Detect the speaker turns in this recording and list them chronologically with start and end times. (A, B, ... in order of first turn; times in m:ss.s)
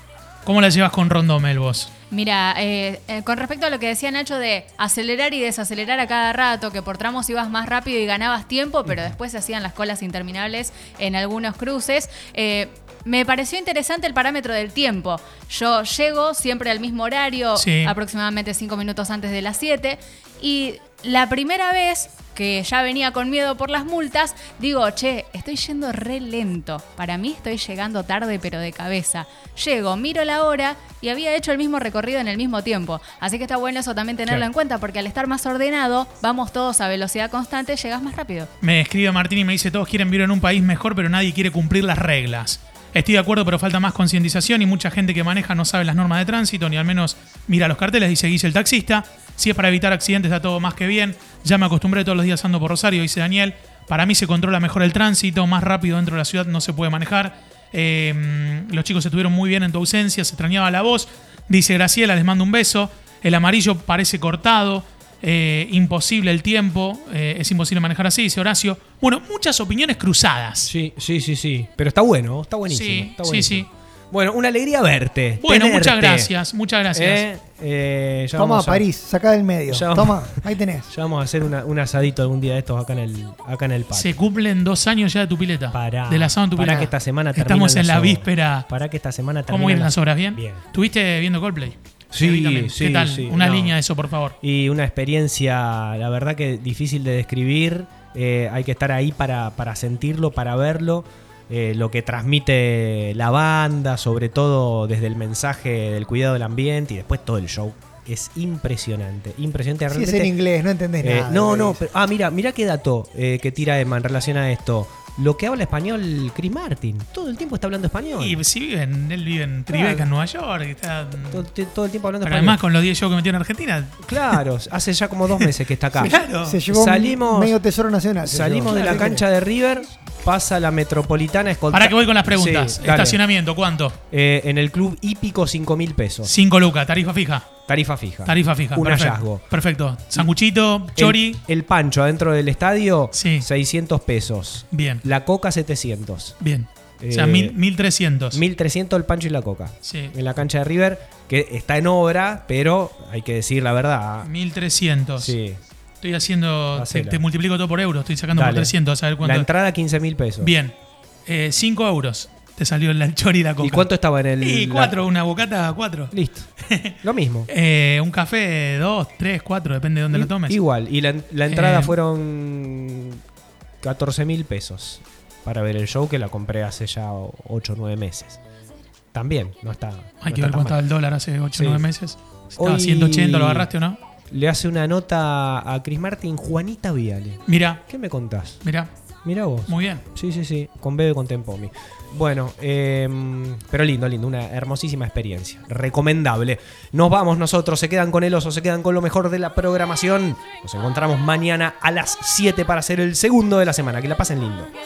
0:00.4-0:01.9 A
0:02.1-0:38.5 B
0:17.6-0:17.9 A
0:38.6-1:10.7 A
1:10.6-1:16.3 C
1:12.7-1:13.7 A
1:15.4-1:17.2 A
1:16.9-1:18.8 C
1:18.4-1:20.9 D
1:19.7-1:24.1 C
1:23.9-1:28.6 A
1:25.7-1:30.6 C
1:29.5-1:34.3 A
1:32.1-1:33.8 C
1:34.4-1:50.3 C
1:49.9-1:51.8 D
1:51.0-1:58.4 C
1:58.2-2:01.5 A
2:01.3-2:02.6 C
2:02.2-2:04.4 A
2:04.0-2:07.6 C
2:05.4-2:06.6 A
2:06.0-2:09.2 D
2:08.2-2:13.2 C
2:08.7-2:09.1 A
2:11.7-2:14.0 A
2:14.1-2:16.3 C
2:16.2-2:17.5 A
2:17.7-2:19.5 C
2:18.2-2:21.4 A
2:20.9-2:26.4 C
2:23.1-2:23.5 A
2:24.7-2:25.0 A
2:26.4-2:28.4 A
2:27.0-2:27.6 C
2:28.3-2:34.3 C
2:29.8-2:30.1 A
2:34.2-2:35.3 A
2:35.2-2:35.6 C
2:36.0-2:39.5 A
2:36.7-2:37.2 C
2:38.3-2:40.5 C
2:40.4-2:40.7 A
2:41.2-2:46.9 A
2:43.6-2:45.0 C
2:46.1-2:46.5 C
2:47.0-2:47.5 C
2:47.5-2:50.6 A
2:50.1-2:53.2 C
2:51.5-2:51.9 A
2:53.8-2:58.4 C
2:59.1-3:00.8 C
3:00.2-3:04.0 A
3:01.5-3:01.9 C
3:02.6-3:03.7 C
3:04.3-3:08.6 C
3:07.4-3:07.8 A
3:08.6-3:08.9 A
3:09.2-3:24.7 C
3:09.7-3:10.0 A